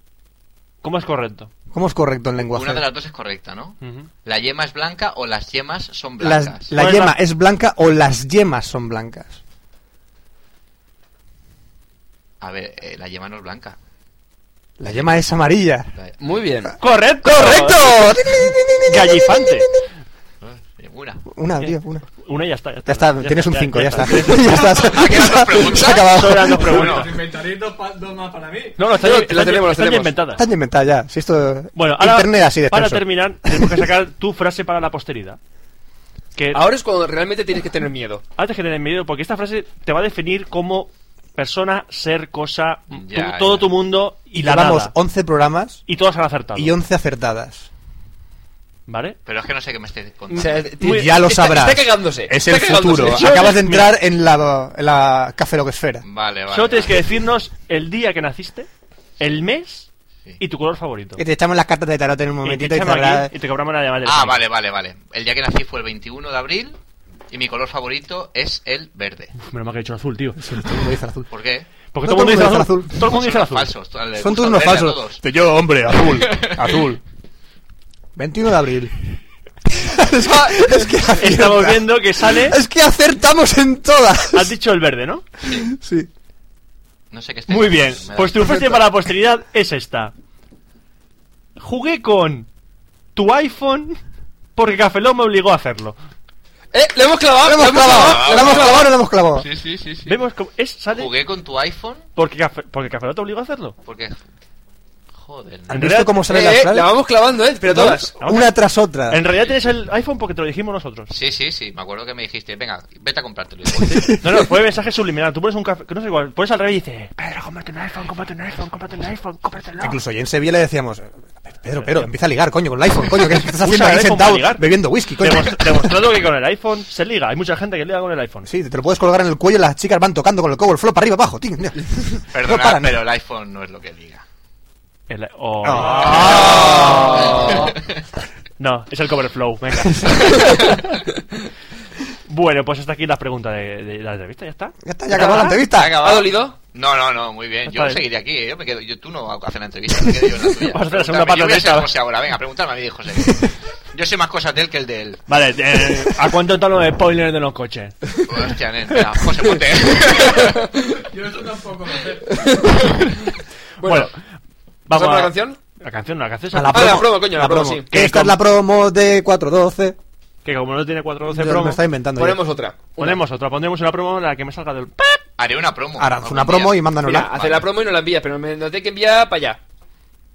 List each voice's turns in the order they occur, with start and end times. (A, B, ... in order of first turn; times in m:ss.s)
0:00.8-0:01.5 A
0:01.7-0:02.8 B
0:02.4-0:06.7 C
0:03.8-0:04.1 A
0:06.2-0:09.4 B
0:06.8-0:07.2 A
0:12.4-0:13.8 C
0:14.8-0:15.9 B
0:16.2-0:16.7 D
0:16.8-0:18.0 A
0:17.2-0:19.8 B
0:18.9-0:19.7 A
0:20.4-0:21.3 C
0:21.3-0:22.0 B
0:21.6-0:24.9 A
0:22.9-0:26.6 B
0:24.4-0:27.2 C
0:25.8-0:27.1 A
0:26.6-0:28.8 E
0:28.8-0:30.4 A
0:29.0-0:30.2 D
0:30.4-0:33.8 B
0:31.8-0:35.4 A
0:36.4-0:36.6 A
0:36.5-0:38.2 D
0:38.4-0:45.0 A
0:42.9-0:43.7 C
0:44.4-0:45.8 B
0:45.9-0:46.7 A
0:46.6-0:47.7 B
0:48.9-0:49.2 A
0:49.3-0:50.7 C
0:50.3-0:51.1 A
0:50.3-0:53.5 D
0:50.8-0:56.0 B
0:53.0-0:54.0 A
0:56.0-0:57.0 C
0:56.5-0:58.7 A
0:59.2-0:59.9 A
1:00.4-1:01.2 A
1:01.2-1:03.3 B
1:02.4-1:04.4 A
1:04.0-1:06.8 C
1:07.3-1:09.4 C
1:09.4-1:10.6 A
1:10.4-1:11.3 B
1:11.3-1:11.7 C
1:11.9-1:13.7 A
1:12.0-1:13.0 B
1:13.0-1:15.2 C
1:14.2-1:17.0 B
1:16.2-1:16.8 C
1:18.2-1:19.0 B
1:19.7-1:24.6 B
1:21.2-1:22.6 A
1:24.3-1:25.2 A
1:25.4-1:25.7 C
1:25.4-1:26.1 B
1:27.1-1:28.8 C
1:27.5-1:30.1 A
1:31.6-1:32.5 A
1:33.2-1:34.0 A
1:34.6-1:36.0 A
1:36.7-1:38.9 D
1:37.4-1:39.5 B
1:37.8-1:40.2 C
1:40.1-1:41.1 A
1:40.9-1:42.1 C
1:42.2-1:43.8 A
1:43.9-1:44.2 C
1:45.2-1:45.7 C
1:45.7-1:46.2 A
1:45.7-1:46.9 B
1:46.3-1:48.1 D
1:47.6-1:49.2 B
1:48.2-1:48.5 A
1:49.1-1:51.1 A
1:51.1-1:54.2 C
1:53.8-1:54.5 B
1:54.2-2:00.0 A
1:59.8-2:05.9 B
2:01.8-2:02.1 A
2:03.4-2:04.7 A
2:05.2-2:08.5 A
2:08.5-2:13.0 B
2:12.3-2:14.2 C
2:15.1-2:17.5 A
2:15.6-2:17.2 B
2:15.7-2:17.7 C
2:16.2-2:17.7 D
2:18.6-2:20.7 A
2:19.9-2:20.5 B
2:22.3-2:25.6 A
2:24.8-2:26.0 B
2:25.6-2:35.2 C
2:26.0-2:26.6 D
2:27.7-2:28.0 A
2:30.6-2:31.9 A
2:35.3-2:38.0 A
2:38.2-2:40.7 C
2:40.4-2:40.7 D
2:41.1-2:42.9 E
2:42.3-2:43.0 D
2:43.8-2:44.3 A
2:43.8-2:44.1 D
2:44.9-2:47.1 A
2:44.9-2:45.6 D
2:46.5-2:50.0 B
2:46.7-2:47.9 D
2:47.9-2:48.4 A
2:50.4-2:51.8 A
2:51.3-2:52.4 B
2:52.2-2:53.2 D
2:53.0-2:55.2 A
2:55.4-2:57.7 C
2:56.0-2:57.3 B
2:57.0-2:59.6 D